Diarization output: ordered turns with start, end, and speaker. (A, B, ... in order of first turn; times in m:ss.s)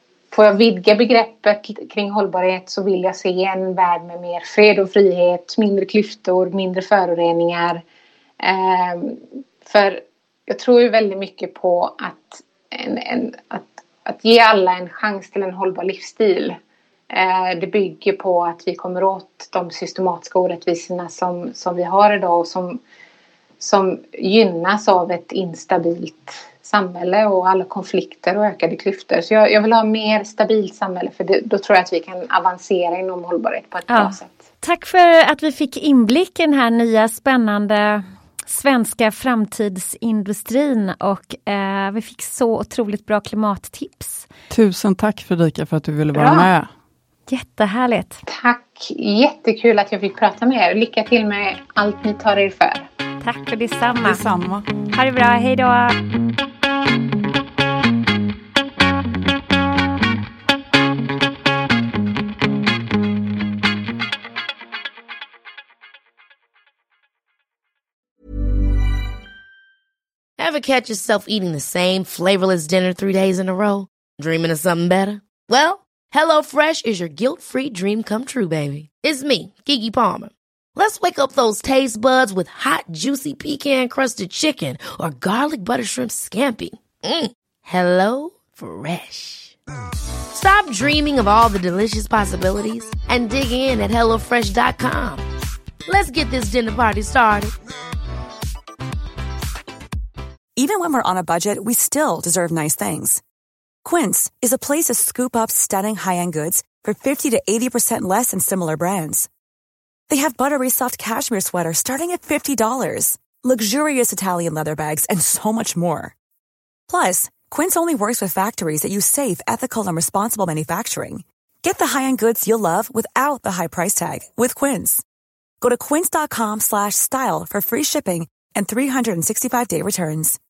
0:00.3-0:07.8 A
0:08.4-0:16.6 A
0:17.1-0:22.8 A
0:23.6-0:34.4 A
0:33.9-0:44.3 B
0:44.5-0:46.7 C
0:46.2-0:46.5 A
0:47.3-0:48.2 B
0:48.3-0:52.9 A
0:53.2-0:54.2 B
0:54.0-0:54.7 C
0:54.9-0:56.0 B
1:10.4-1:29.6 D
1:30.3-1:35.2 D
1:35.9-1:37.5 D
1:40.6-1:43.2 E
1:43.8-1:49.3 E
1:50.1-1:56.1 E
1:56.9-2:05.0 E
2:05.6-2:10.4 E